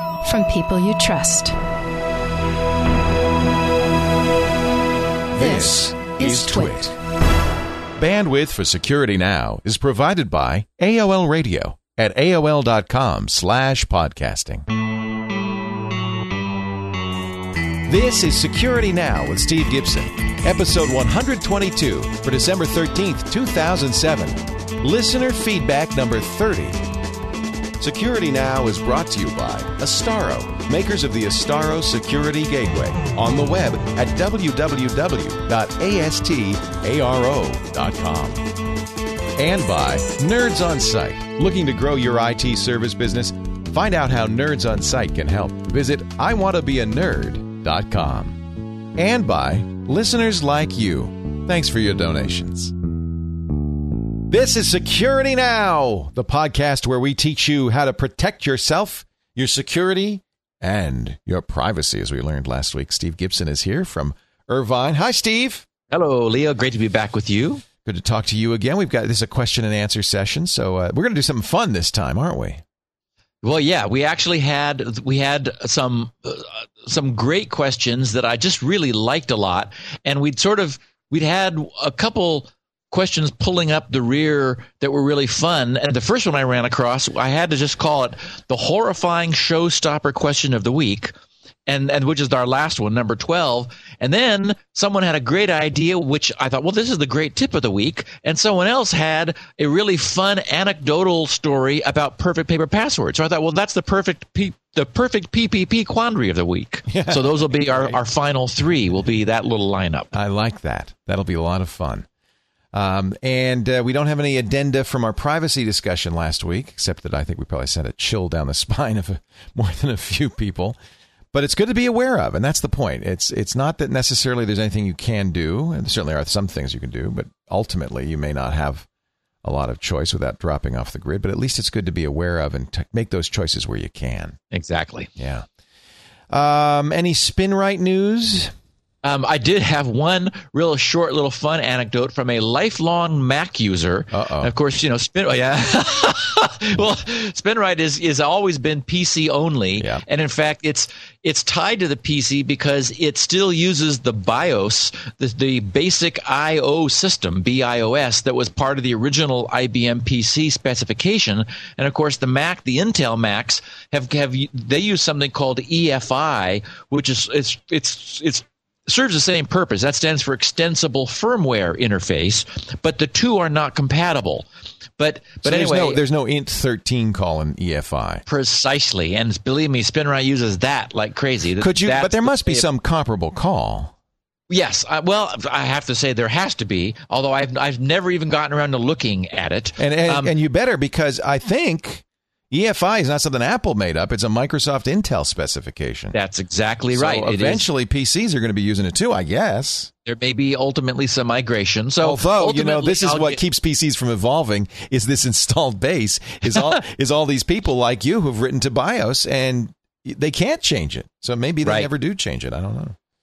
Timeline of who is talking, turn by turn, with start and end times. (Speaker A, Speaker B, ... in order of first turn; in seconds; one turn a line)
Speaker A: 0.2-1.6
Speaker B: 5.3-6.9
Speaker A: 5.4-6.9
Speaker B: 8.0-14.7
Speaker B: 17.9-26.8
Speaker B: 27.8-38.5
Speaker B: 39.4-48.4
Speaker B: 49.0-52.7
Speaker B: 54.3-65.7
Speaker C: 65.9-67.7
Speaker B: 67.8-72.6
Speaker C: 73.4-91.1
Speaker C: 91.7-110.1
Speaker B: 106.9-108.0
Speaker B: 110.1-112.1
Speaker B: 112.7-120.8
Speaker B: 121.3-128.9
Speaker B: 129.4-134.4
Speaker C: 134.5-135.1
Speaker B: 135.2-135.5
Speaker B: 136.3-138.5
Speaker C: 139.0-174.5
Speaker B: 144.1-144.5
Speaker C: 175.0-176.0
Speaker B: 175.4-178.2
Speaker C: 178.3-182.7
Speaker B: 181.6-183.9
Speaker C: 184.5-190.3
Speaker B: 189.8-196.2
Speaker C: 196.1-197.7
Speaker B: 196.9-199.9
Speaker C: 200.1-203.4
Speaker B: 202.0-213.0
Speaker C: 211.6-211.9